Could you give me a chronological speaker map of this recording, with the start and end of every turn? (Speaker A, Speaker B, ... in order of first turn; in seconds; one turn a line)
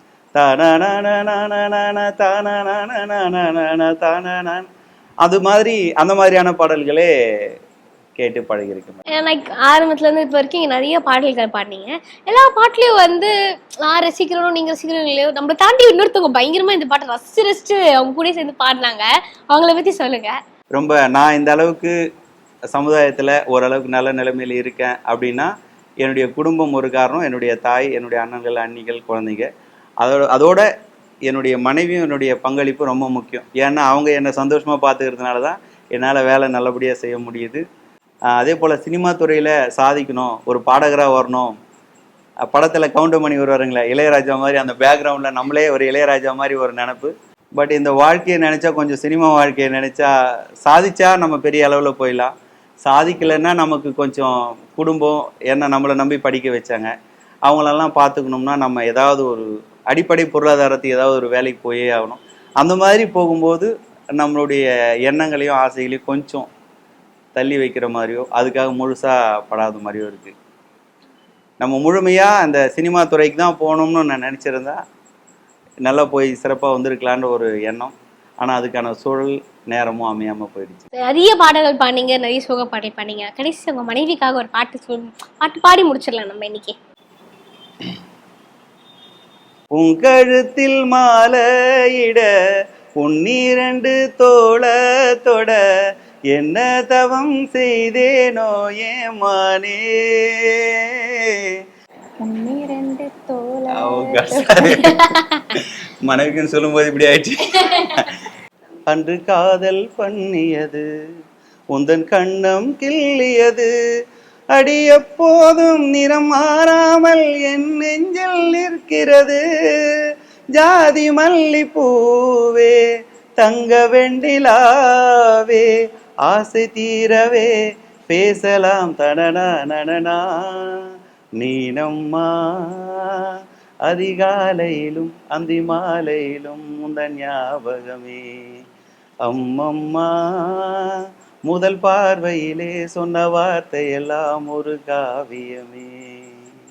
Speaker A: 0.3-4.7
Speaker A: 5.2-7.5
Speaker A: 8.2-9.0
Speaker B: 9.1-13.3
Speaker B: 13.8-20.3
Speaker A: 20.7-21.9
Speaker A: 22.7-25.5
Speaker A: 26.0-29.5
Speaker A: 30.0-30.7
Speaker A: 31.2-37.6
Speaker A: 38.3-41.5
Speaker A: 42.5-50.1
Speaker A: 50.6-52.3
Speaker A: 52.8-56.9
Speaker A: 57.5-66.5
Speaker A: 67.3-70.3
Speaker A: 71.6-74.8
Speaker A: 75.8-80.9
Speaker B: 81.0-86.7
Speaker A: 89.7-92.3
Speaker A: 93.0-95.6
Speaker A: 96.3-101.6
Speaker C: 102.2-105.0
Speaker A: 103.7-105.0
Speaker A: 106.0-108.1
Speaker A: 108.9-110.8
Speaker A: 111.7-113.7
Speaker A: 114.5-120.0
Speaker A: 120.5-122.8
Speaker A: 123.4-125.7
Speaker A: 126.2-127.5
Speaker A: 128.1-138.6
Speaker A: 139.2-140.9
Speaker A: 141.4-146.2